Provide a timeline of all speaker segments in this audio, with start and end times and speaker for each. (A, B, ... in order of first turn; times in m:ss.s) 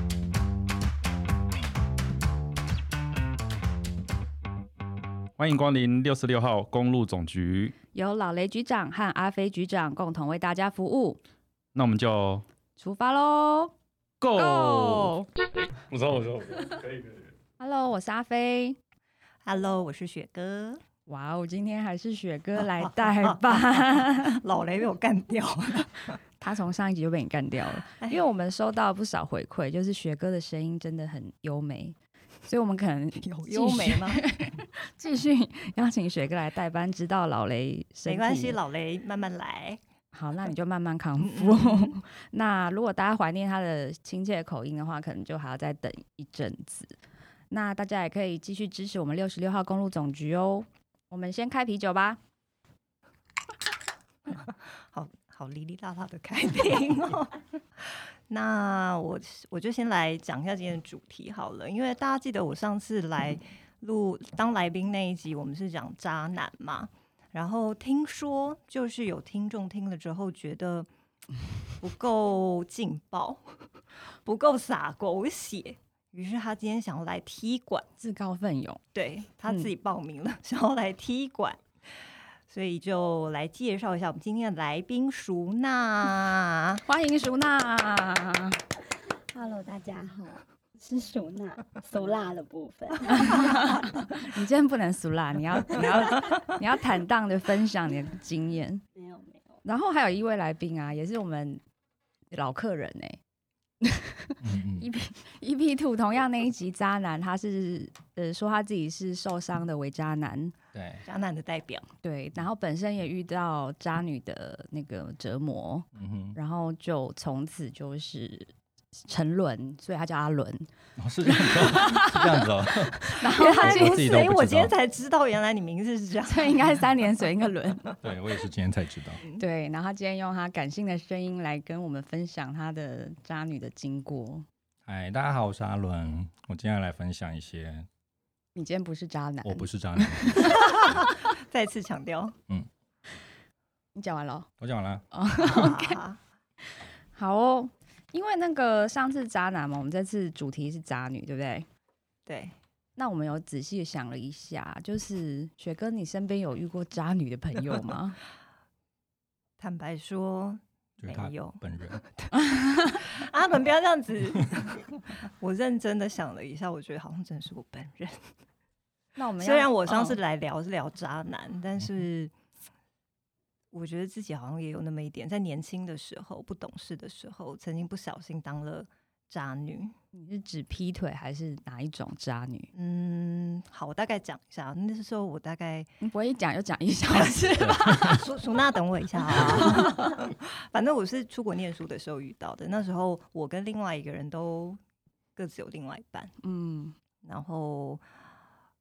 0:05.4-0:07.8 A
0:07.9-0:11.2 B
0:11.7-0:12.4 A
0:12.8-0:13.7 B
0:14.2-0:15.1 A
0:14.3-0:15.3 B
0:15.7-0:17.3 A
0:17.6-0:18.8 B
0:19.4-0:20.8 C
0:21.1-0:24.4 B
0:22.6-0:26.2 C
0:26.4-0:38.6 B
0:27.9-0:28.2 C
0:33.2-0:34.2 C
0:38.0-0:39.8 C
0:40.1-0:46.9 B
0:41.2-0:42.0 C
0:47.5-0:52.2 B
0:54.3-1:10.9 C
1:11.8-1:13.7 C
1:14.2-1:17.9 C
1:18.0-1:18.8 B
1:18.9-1:26.8 C
1:26.8-1:28.6 B
1:29.3-1:33.8 D
1:33.1-1:38.8 B
1:38.9-1:39.6 D
1:39.6-1:41.6 B
1:42.3-1:43.2 B
1:43.8-1:50.5 B
1:44.4-1:44.9 E
1:50.7-1:51.0 E
1:51.0-1:51.9 C
1:52.0-1:58.5 B
1:56.0-1:56.4 E
1:59.1-2:00.7 B
2:01.0-2:04.7 E
2:01.2-2:04.3 B
2:03.2-2:06.8 C
2:06.3-2:07.9 B
2:08.0-2:09.2 E
2:09.4-2:14.4 B
2:14.8-2:17.9 E
2:18.5-2:21.2 B
2:19.4-2:20.5 E
2:20.4-2:22.4 C
2:23.9-2:24.5 B
2:24.6-2:25.0 E
2:25.1-2:26.0 B
2:25.4-2:26.2 C
2:26.7-2:31.6 B
2:32.2-2:32.6 C
2:33.0-2:38.2 B
2:39.6-2:48.3 C
2:41.0-2:42.0 E
2:42.5-2:43.0 B
2:49.2-2:50.2 B
2:49.4-2:52.3 C
2:53.7-2:59.9 C
3:00.1-3:02.7 B
3:02.7-3:05.9 C
3:06.0-3:08.2 B
3:07.1-3:14.8 C
3:07.6-3:08.2 E
3:09.3-3:10.1 B
3:15.4-3:16.4 C
3:16.4-3:16.9 B
3:17.2-3:18.0 C